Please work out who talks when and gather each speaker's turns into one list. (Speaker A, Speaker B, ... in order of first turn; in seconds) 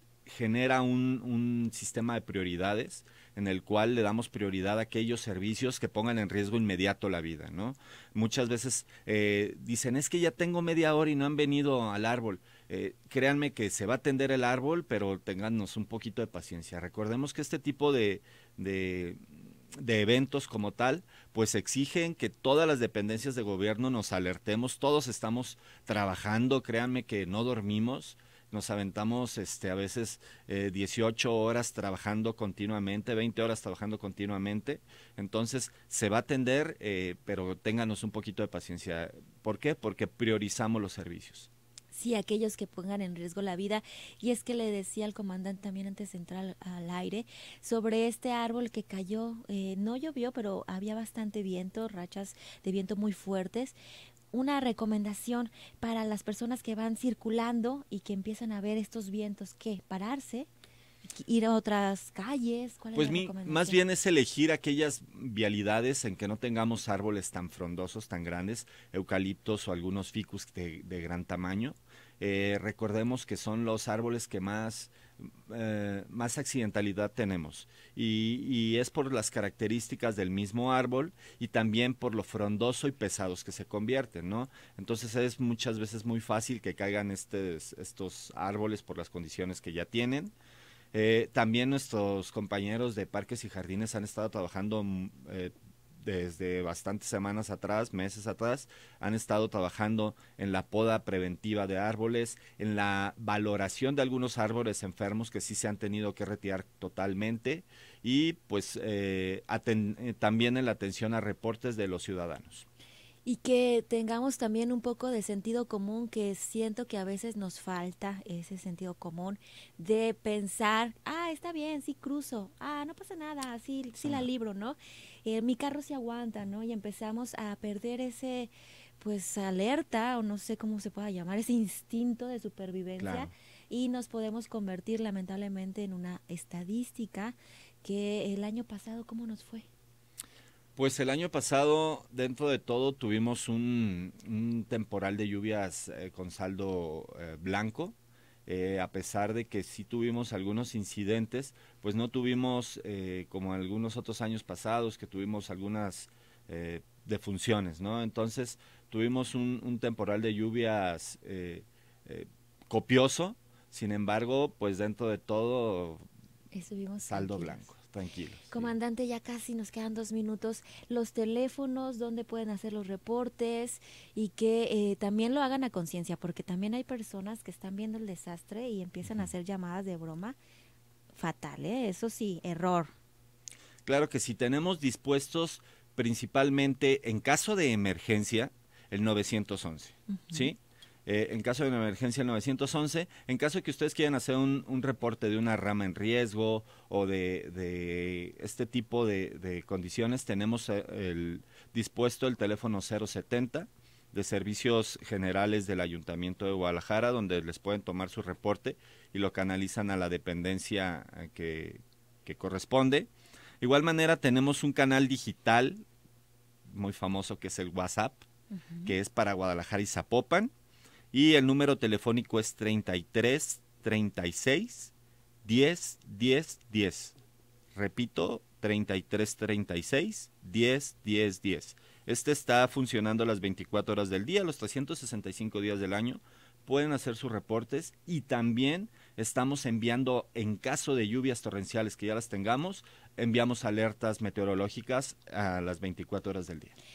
Speaker A: 0.2-41.5, 62.9-90.3, 90.9-112.7, 133.0-133.3, 140.8-147.9, 148.4-166.0, 167.0-168.7, 179.0-179.3, 183.8-213.1, 213.6-215.8, 216.7-218.2, 218.8-220.5, 221.1-224.9, 225.4-227.1, 227.7-246.7
Speaker B: 41.9-53.8, 54.3-60.5, 61.1-63.8, 113.2-139.7, 166.5-167.7, 168.5-180.4, 181.1-182.9, 190.1-190.5, 218.5-218.9